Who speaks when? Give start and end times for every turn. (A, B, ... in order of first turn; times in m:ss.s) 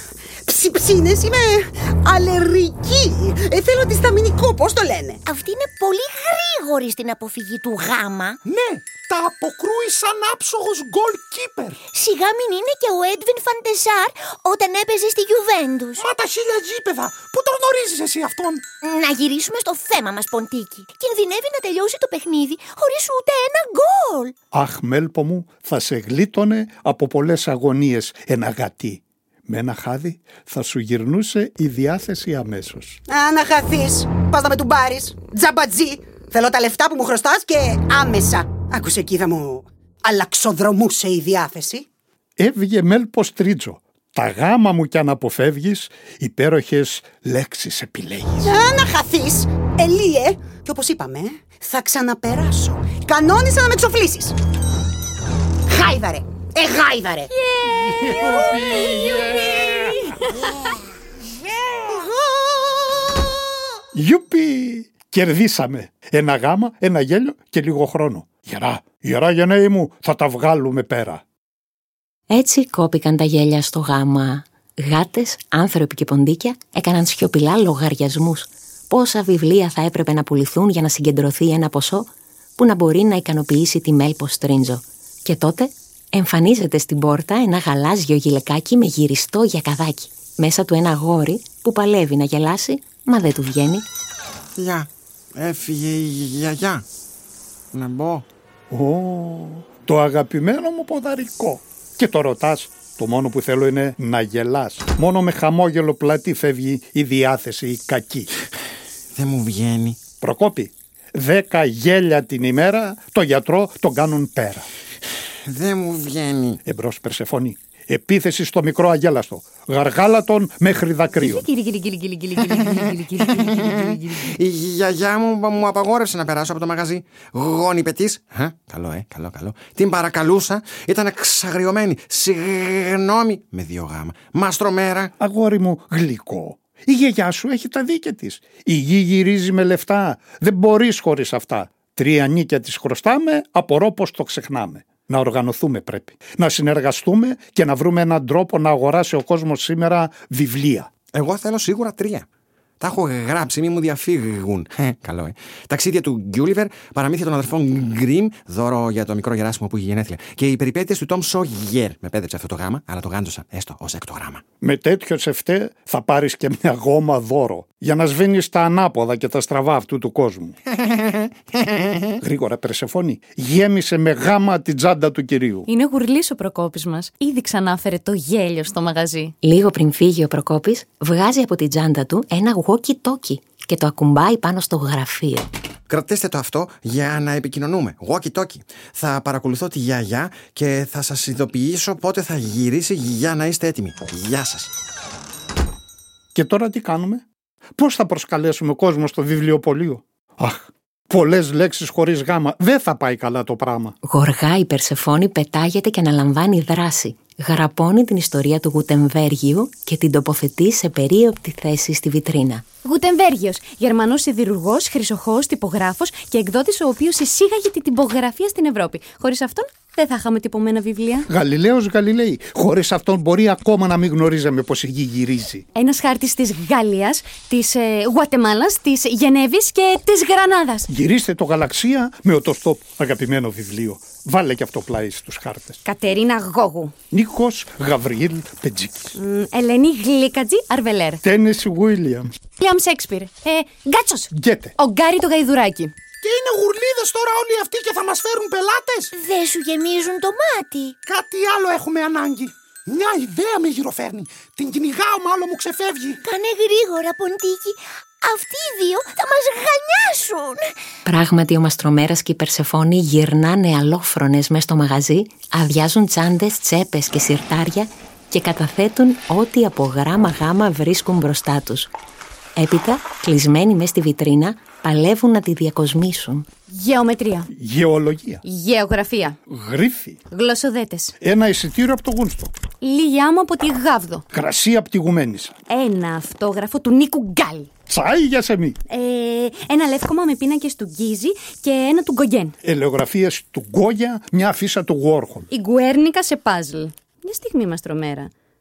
0:00.5-0:05.2 A
0:05.2-0:08.4 B
0:08.4-0:11.8 C
0:11.9-0:16.0 B
0:16.0-0:18.6 C
0:18.8-0:24.3 B
0:24.5-0:33.0 D
0:33.1-0:41.9 A
0:42.4-0:48.5 D
0:48.4-0:54.4 A
0:55.7-0:57.3 A
0:57.4-1:00.5 E
0:57.7-1:00.0 D
1:01.7-1:03.1 A
1:03.9-1:11.2 D
1:12.3-1:33.8 F
1:34.6-1:36.8 G
1:37.7-1:38.2 G
1:38.7-1:48.3 D
1:49.1-1:50.0 G
1:50.2-1:54.7 D
1:55.4-1:56.6 G
1:56.6-2:01.5 D
2:01.1-2:04.4 E
2:03.3-2:15.1 G
2:15.2-2:30.9 D
2:31.1-2:32.3 G
2:32.8-2:44.4 G
2:44.6-2:50.6 D
2:52.2-2:55.7 D
2:55.7-2:59.3 E
2:59.4-3:05.5 F
3:05.9-3:14.7 G
3:16.3-3:17.2 D
3:17.8-3:24.0 D
3:24.0-3:32.6 F
3:32.8-3:41.3 E
3:41.3-3:45.6 D
3:45.7-3:50.8 E
3:50.9-3:55.8 D
3:55.8-3:56.9 E
3:57.1-3:59.1 D
3:59.1-4:01.2 E
4:01.2-4:02.3 D
4:02.6-4:05.9 E
4:04.3-4:04.7 D
4:06.2-4:09.1 C
4:09.1-4:11.0 B
4:11.0-4:16.2 C
4:16.2-4:20.7 B
4:21.0-4:31.9 F
4:32.6-4:36.4 F
4:36.7-4:37.5 E
4:37.5-4:38.4 D
4:38.4-4:39.4 E
4:39.5-4:40.2 D
4:40.3-4:41.1 E
4:41.2-4:42.5 D
4:42.8-4:44.2 E
4:44.3-4:45.6 D
4:45.7-4:47.7 E
4:47.9-4:48.8 D
4:48.9-4:52.5 E
4:52.6-4:55.5 D
4:55.5-4:58.3 E